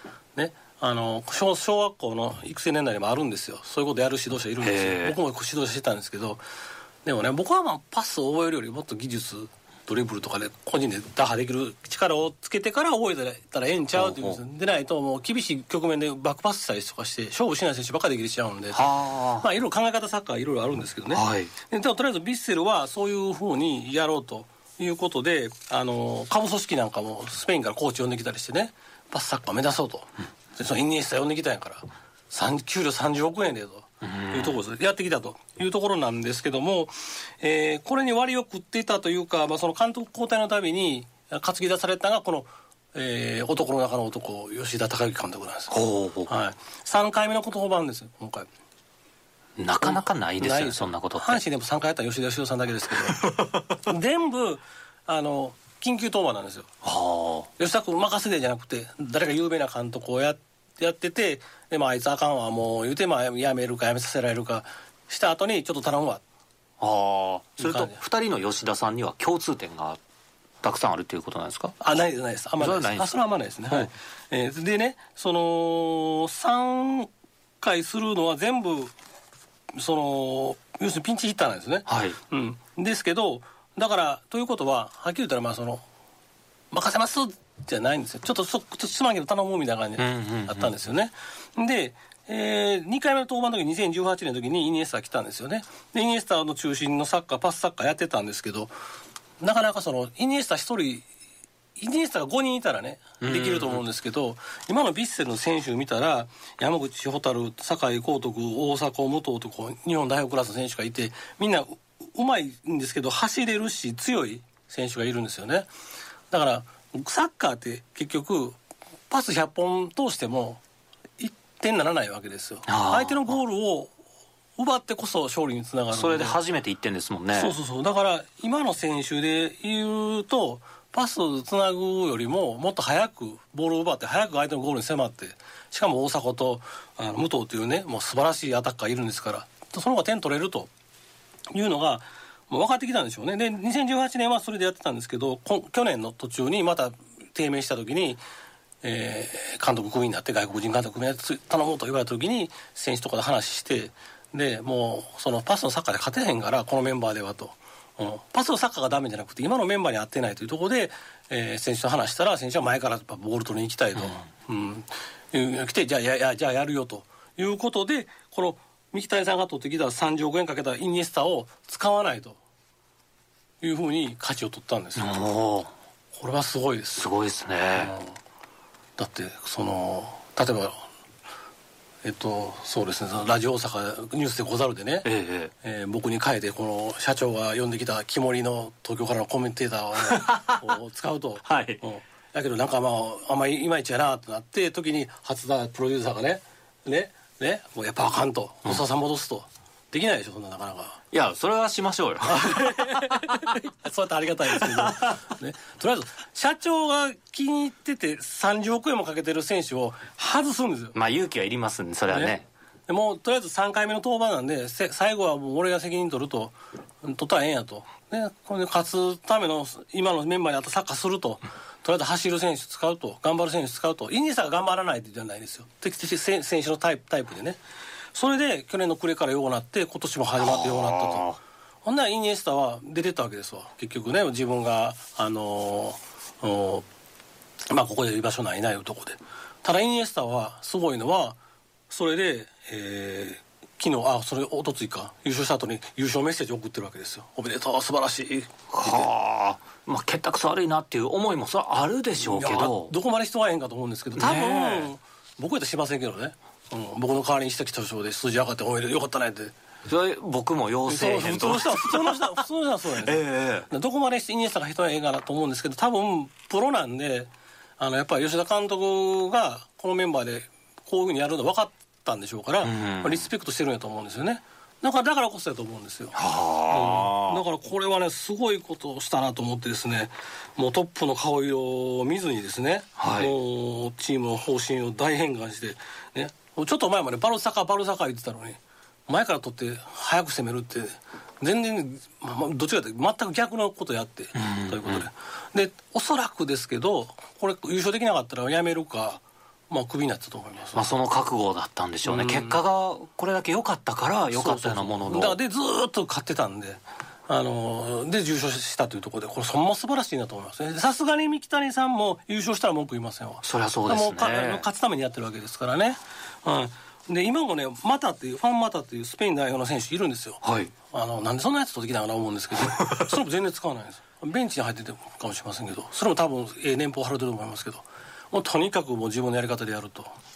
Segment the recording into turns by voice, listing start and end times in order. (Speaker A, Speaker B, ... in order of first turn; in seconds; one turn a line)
Speaker A: 0.3-6.4
Speaker B: 4.6-5.2
Speaker A: 7.0-18.9
Speaker B: 13.9-14.4
Speaker B: 18.7-19.5
Speaker A: 19.4-45.7
Speaker B: 21.1-21.5
Speaker B: 34.0-34.6
Speaker B: 45.7-46.3
Speaker A: 46.3-48.5
Speaker B: 49.6-51.4
Speaker A: 49.8-53.2
Speaker B: 53.2-53.7
Speaker A: 53.8-56.7
Speaker B: 56.8-57.5
Speaker A: 57.6-66.2
Speaker B: 66.8-70.0
Speaker A: 67.6-68.0
Speaker B: 70.6-71.7
Speaker A: 71.8-77.1
Speaker B: 72.6-73.1
Speaker A: 77.6-78.9
Speaker A: 79.8-85.8
Speaker B: 81.9-82.2
Speaker A: 86.7-98.7
Speaker B: 90.0-90.7
Speaker A: 99.4-101.1
Speaker A: 101.8-115.7
Speaker B: 103.2-103.8
Speaker A: 116.3-118.6
Speaker A: 119.1-120.6
Speaker A: 121.2-123.9
Speaker B: 122.7-123.4
Speaker A: 124.6-126.4
Speaker B: 125.9-127.6
Speaker A: 127.3-140.7
Speaker A: 141.5-148.2
Speaker A: 148.8-172.4
Speaker A: 173.6-175.2
Speaker B: 175.0-175.7
Speaker A: 176.1-177.1
Speaker B: 177.0-178.0
Speaker A: 177.8-178.2
Speaker A: 179.0-180.8
Speaker A: 182.0-185.1
Speaker B: 185.0-185.5
Speaker A: 185.6-201.0
Speaker B: 190.0-190.8
Speaker B: 191.4-191.8
Speaker B: 201.1-203.6
Speaker A: 202.3-211.0
Speaker B: 210.9-212.5
Speaker A: 212.1-212.3
Speaker A: 212.9-227.6
Speaker A: 228.1-236.9
Speaker B: 230.4-231.4
Speaker A: 237.7-241.4
Speaker A: 241.9-249.1
Speaker B: 248.7-252.9
Speaker A: 252.2-259.5
Speaker B: 254.2-254.9
Speaker B: 259.9-262.3
Speaker A: 260.9-300.9
Speaker B: 263.0-263.7
Speaker B: 272.6-273.3
Speaker B: 276.1-277.4
Speaker B: 283.0-283.3
Speaker B: 294.4-295.1
Speaker B: 300.7-305.4
Speaker A: 302.1-302.6
Speaker A: 304.3-330.1
Speaker B: 313.4-314.7
Speaker B: 320.4-320.7
Speaker B: 322.6-323.1